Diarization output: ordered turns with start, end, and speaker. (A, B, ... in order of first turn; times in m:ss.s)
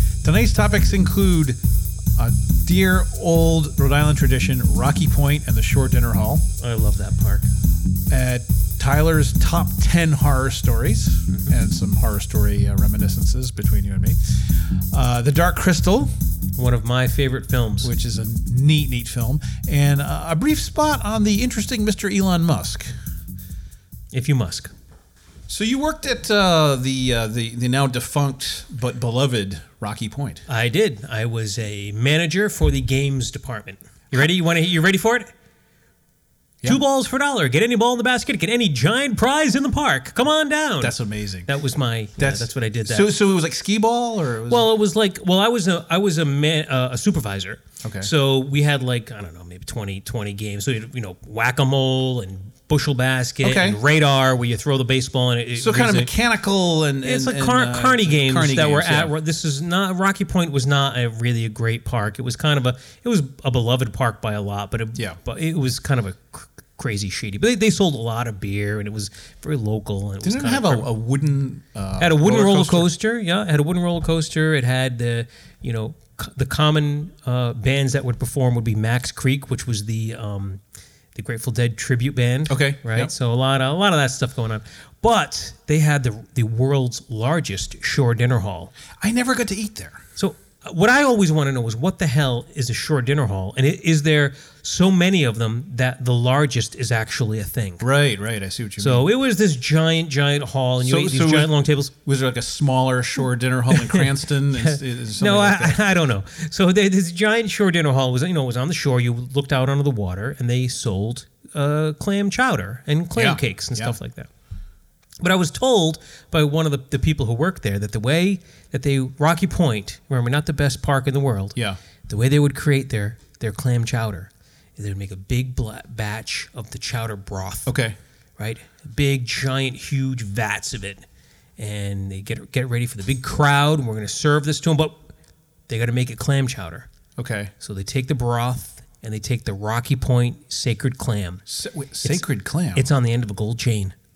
0:00.2-0:01.6 A
0:02.2-0:06.4 A
0:06.6-0:07.5 B
0:08.1-0:14.2 A
0:14.9-0:16.1 A
0:16.6-0:17.9 B
0:17.8-0:22.9 A
0:24.1-0:24.7 B
0:25.5-0:30.5 A
0:30.5-0:35.3 B
0:36.6-0:41.0 B
0:40.8-0:41.5 A
0:41.5-0:43.1 B
0:42.2-0:44.7 A
0:44.5-0:56.1 B
0:47.8-0:48.1 A
0:53.4-0:53.8 A
0:55.6-0:59.1 A
0:57.0-1:10.9 B
1:10.2-1:12.9 A
1:12.0-1:20.6 B
1:21.2-1:28.7 B
1:22.5-1:23.1 A
1:29.0-1:30.0 A
1:30.2-1:37.8 B
1:37.8-1:39.1 A
1:38.8-1:41.9 B
1:40.8-1:45.9 A
1:43.7-1:54.3 B
1:53.2-1:54.0 A
1:55.2-2:07.7 B
2:07.7-2:08.0 A
2:08.4-2:11.0 B
2:11.6-2:15.0 B
2:15.7-2:16.9 B
2:17.2-2:17.5 A
2:17.6-2:21.4 B
2:21.5-2:22.9 A
2:22.8-2:24.0 B